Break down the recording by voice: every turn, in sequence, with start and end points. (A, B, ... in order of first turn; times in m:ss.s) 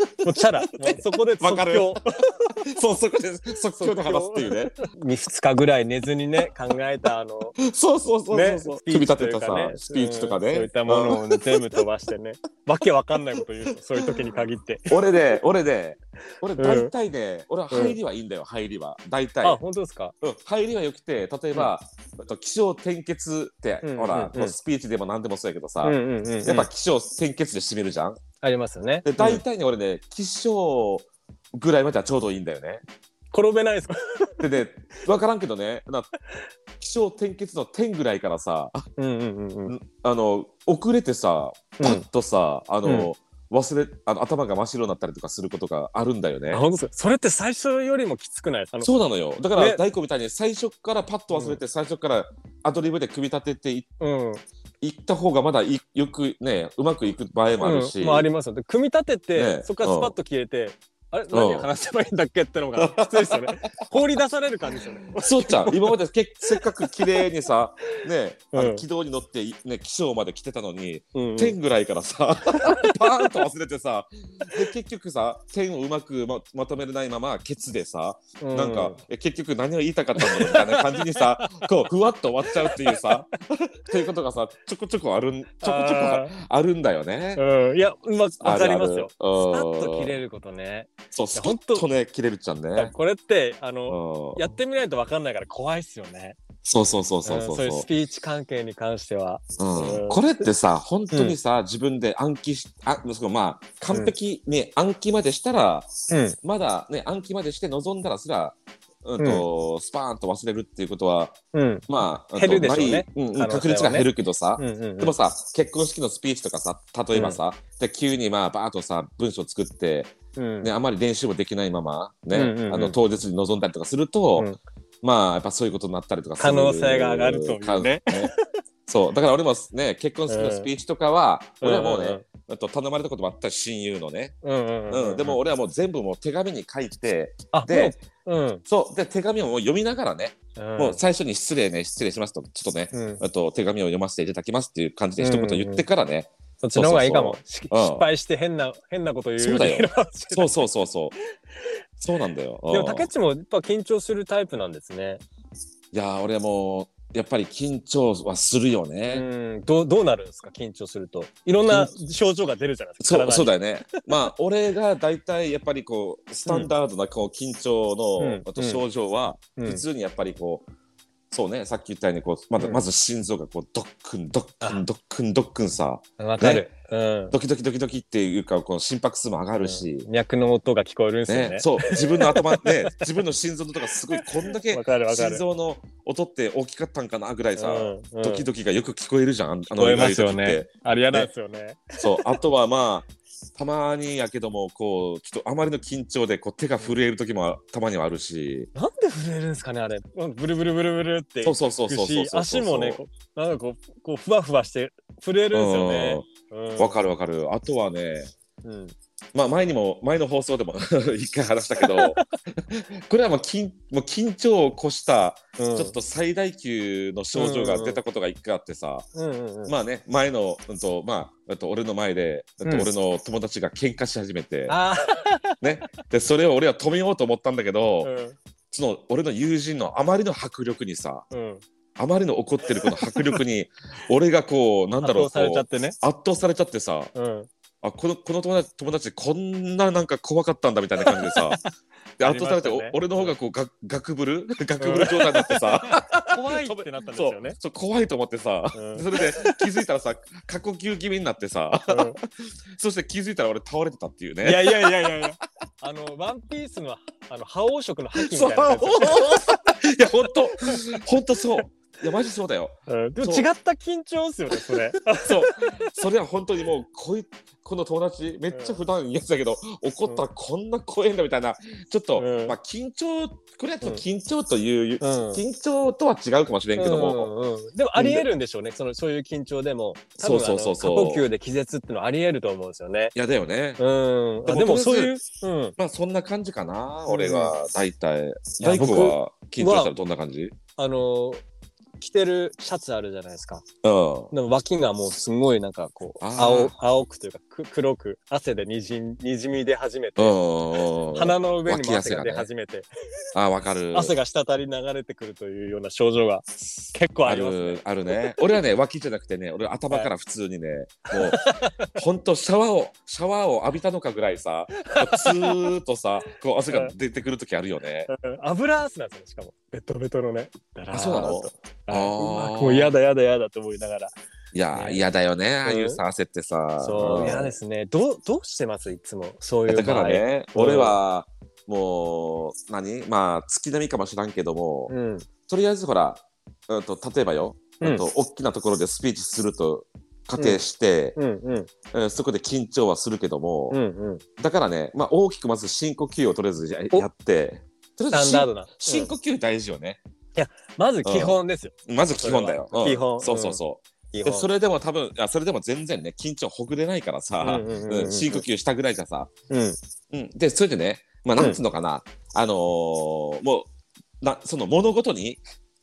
0:00.2-0:02.0 A
0:00.9-0:04.8 B
0:03.8-0:07.5 A
0:07.6-0:11.6 B
0:08.3-0:15.0 A
0:14.9-0:19.6 B
0:16.6-0:16.9 A
0:17.7-0:18.0 A
0:19.4-0:20.1 A
0:20.2-0:28.2 B
0:23.8-0:24.6 A
0:25.8-0:26.7 A
0:28.4-0:29.4 A
0:29.0-0:32.8 B
0:33.3-0:34.4 A
0:34.4-0:36.1 B
0:36.8-0:38.8 B
0:39.0-0:39.7 A
0:39.7-0:46.6 B
0:41.8-0:42.0 A
0:42.8-0:43.1 A
0:46.5-0:48.9 A
0:48.8-0:53.9 B
0:49.5-0:49.8 A
0:51.3-0:51.6 A
0:54.0-0:54.4 A
0:54.8-0:58.3 B
0:57.6-1:06.0 A
0:59.3-1:00.1 B
1:01.3-1:01.7 B
1:02.8-1:03.6 B
1:05.1-1:27.4 B
1:06.5-1:07.1 A
1:08.5-1:08.8 A
1:11.1-1:11.6 A
1:12.5-1:13.0 A
1:18.4-1:19.0 A
1:20.2-1:21.7 A
1:22.6-1:23.2 A
1:25.6-1:26.3 A
1:27.4-1:31.9 A
1:28.4-1:30.2 B
1:31.1-1:32.9 B
1:32.8-1:36.4 A
1:33.9-1:34.5 B
1:36.6-1:37.9 B
1:37.2-1:40.5 A
1:39.6-1:45.9 B
1:41.1-1:41.4 A
1:46.1-1:46.4 A
1:46.4-2:04.5 B
1:49.2-1:49.4 A
1:51.5-1:55.2 A
1:57.1-1:57.4 A
2:00.4-2:00.7 A
2:02.3-2:03.0 A
2:05.0-2:08.3 B
2:06.4-2:08.4 A
2:08.9-2:14.3 B
2:10.3-2:10.7 A
2:11.6-2:12.2 A
2:14.4-2:15.4 A
2:14.9-2:18.0 B
2:17.5-2:18.6 A
2:18.7-2:28.0 B
2:20.6-2:21.0 A
2:22.9-2:23.2 A
2:25.2-2:25.9 A
2:26.6-2:30.7 A
2:29.4-2:31.1 B
2:32.0-2:33.1 B
2:32.7-2:35.2 A
2:35.9-2:39.2 B
2:39.1-2:44.3 A
2:41.7-2:41.9 B
2:43.0-2:50.7 B
2:46.4-2:46.7 A
2:48.2-2:48.8 A
2:49.6-2:49.8 A
2:51.3-2:56.6 B
2:56.2-2:57.4 A
2:57.3-3:00.1 B
2:59.6-3:03.2 A
3:01.3-3:11.3 B
3:04.1-3:05.4 A
3:07.6-3:08.5 A
3:09.7-3:12.4 A
3:12.0-3:18.7 B
3:18.7-3:27.0 A
3:21.4-3:23.0 B
3:25.5-3:26.3 B
3:26.8-3:28.3 B
3:28.6-3:28.9 A
3:29.3-3:39.1 B
3:31.8-3:32.3 A
3:35.6-3:36.0 A
3:37.3-3:38.0 A
3:39.1-3:39.7 A
3:39.7-3:44.8 B
3:44.7-3:45.6 A
3:45.6-3:48.1 B
3:48.0-3:48.4 A
3:48.7-3:51.2 B
3:51.3-3:51.6 A
3:52.0-3:57.1 B
3:52.8-3:53.4 A
3:55.0-3:56.0 A
3:57.1-3:57.5 A
3:57.8-4:01.6 B
4:01.0-4:01.7 A
4:02.2-4:12.2 B
4:02.2-4:03.4 A
4:04.8-4:07.6 A
4:08.7-4:09.6 A
4:11.9-4:12.2 A
4:12.8-4:15.2 B
4:14.4-4:19.4 A
4:18.2-4:23.5 B
4:22.9-4:25.9 A
4:24.5-4:37.3 B
4:28.5-4:28.8 A
4:32.1-4:32.6 A
4:35.0-4:35.4 A
4:36.8-4:43.1 A
4:38.0-4:38.2 B
4:40.2-4:41.3 B
4:43.1-4:43.8 B
4:43.8-4:45.8 A
4:44.4-4:45.2 B
4:45.8-4:50.6 B
4:47.1-4:47.5 A
4:48.6-4:49.9 A
4:50.8-4:51.4 A
4:52.0-4:53.6 A
4:53.8-4:54.3 B
4:54.3-5:00.4 A
4:56.2-4:56.7 B
5:00.2-5:02.5 B
5:01.1-5:02.9 A
5:03.3-5:04.1 B
5:03.9-5:08.2 A
5:07.2-5:18.1 B
5:11.1-5:12.0 A
5:14.9-5:15.7 A
5:16.7-5:16.9 A
5:18.1-5:24.1 A
5:20.9-5:23.0 B
5:24.5-5:27.5 B
5:24.7-5:25.0 A
5:25.6-5:26.0 A
5:26.8-5:31.0 A
5:29.7-5:34.9 B
5:34.9-5:35.3 A
5:35.5-5:41.2 B
5:41.2-5:41.7 A
5:41.9-5:43.8 B
5:43.7-5:44.2 A
5:44.4-5:50.0 B
5:48.1-5:49.1 A
5:50.3-5:54.5 A
5:51.0-5:59.3 B
5:57.4-5:58.4 A
5:59.5-5:59.8 A
6:00.1-6:03.7 B
6:04.2-6:05.4 B